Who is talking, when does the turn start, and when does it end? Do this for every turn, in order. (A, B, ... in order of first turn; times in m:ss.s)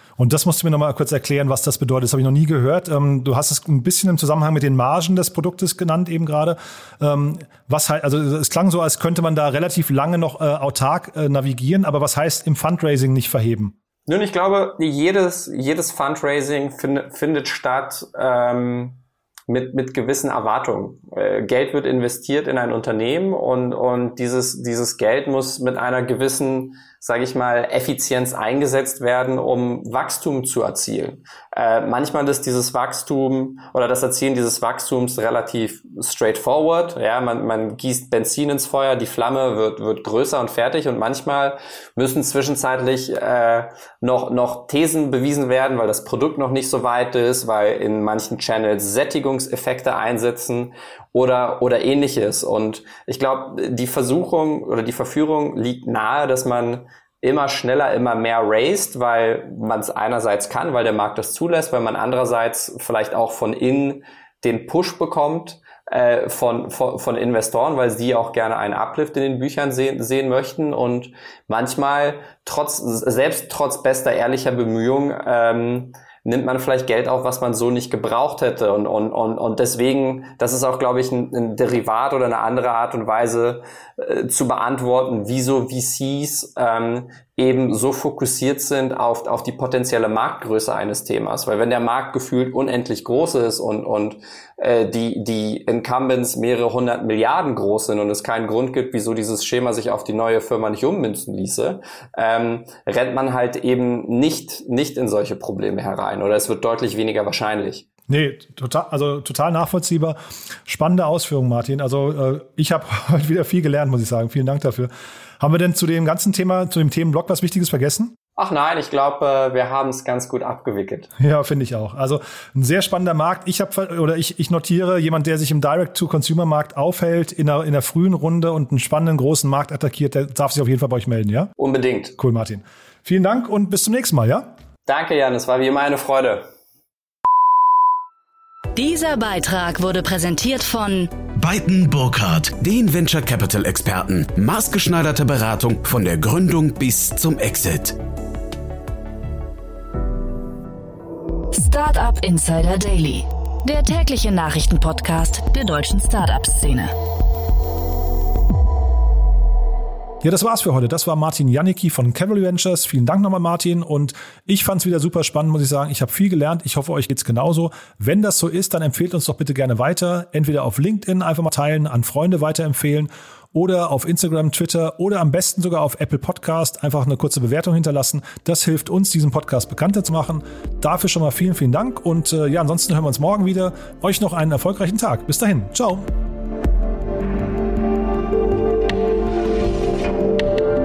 0:00.2-0:13.7 A
0:14.1-1:47.8 B
1:48.1-1:58.1 A
1:58.4-2:01.1 B
2:01.2-2:11.5 A
2:11.6-2:12.1 B
2:12.2-2:14.5 A
2:14.9-2:16.4 B
2:18.8-2:21.1 C
2:21.4-2:28.0 D
2:31.5-2:36.9 C
2:40.2-3:06.1 A